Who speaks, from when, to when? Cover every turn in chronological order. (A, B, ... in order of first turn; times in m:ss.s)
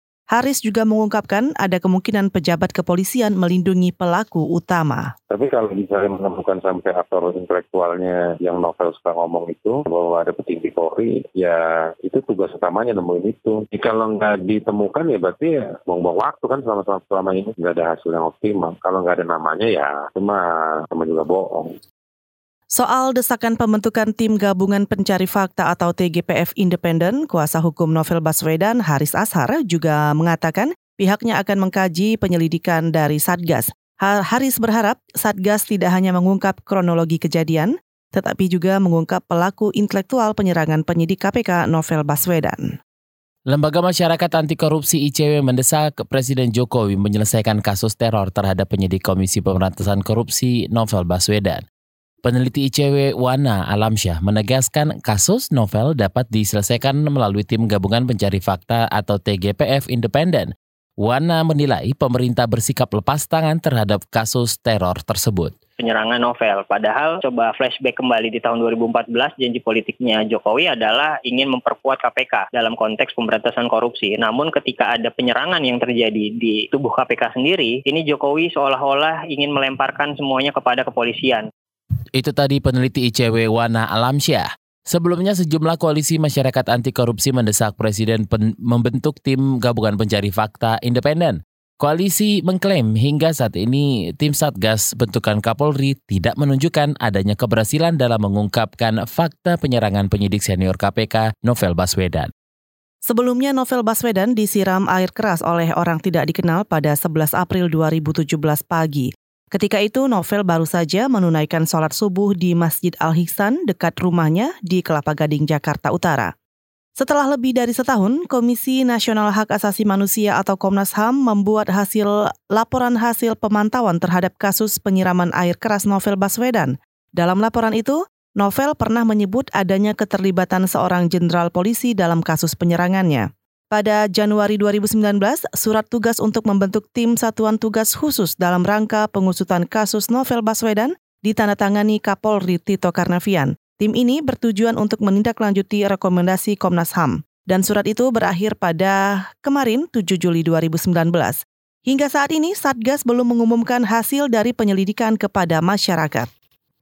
0:00.3-0:05.1 A
0:05.3-0:21.7 B
0:22.7-0:42.7 A
0:43.5-0:51.6 C
0:52.2-1:05.6 C
1:05.8-1:21.5 D
1:22.2-1:42.3 C
1:43.0-1:56.3 A
1:57.0-2:36.3 A